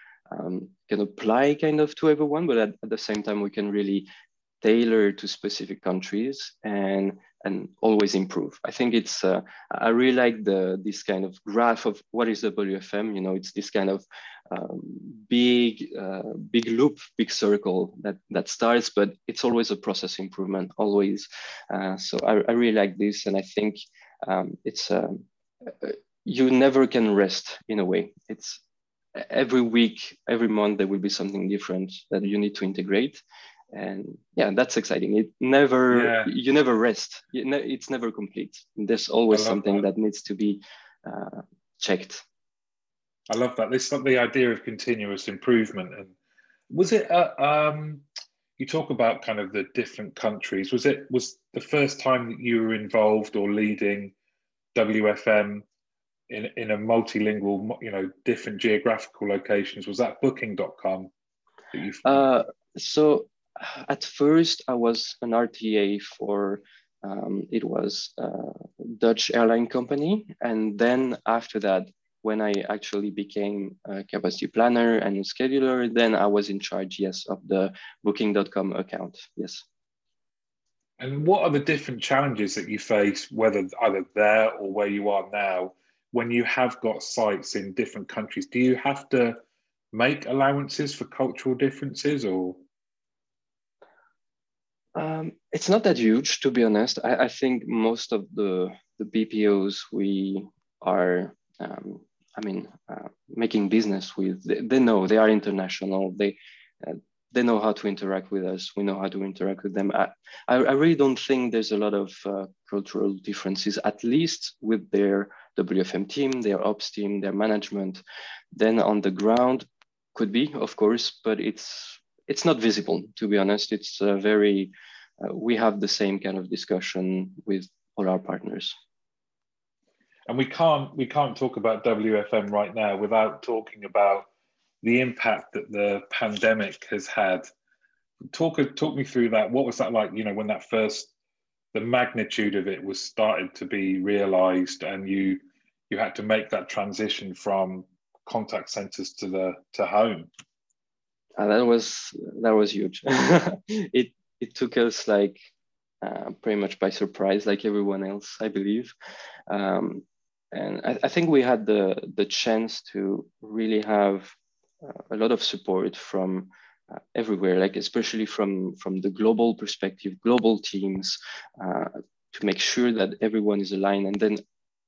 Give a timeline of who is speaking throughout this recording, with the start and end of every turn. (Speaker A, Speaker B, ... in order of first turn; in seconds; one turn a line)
Speaker A: 0.3-4.1
Speaker A: 4.6-28.6
Speaker A: 29.1-33.2
Speaker A: 33.7-42.2
Speaker B: 35.9-36.3
Speaker B: 39.3-39.8
Speaker B: 43.3-46.1
Speaker B: 46.7-48.0
Speaker B: 48.6-54.1
Speaker B: 54.7-55.6
Speaker B: 56.3-61.1
Speaker B: 61.7-62.2
Speaker A: 62.0-79.6
Speaker B: 81.0-89.4
Speaker B: 89.9-92.6
Speaker A: 95.0-118.0
Speaker A: 118.5-128.7
Speaker B: 130.3-134.3
Speaker B: 134.8-137.4
Speaker B: 138.3-141.1
Speaker B: 141.7-150.3
Speaker A: 151.4-155.4
Speaker A: 156.0-158.9
Speaker A: 159.5-174.4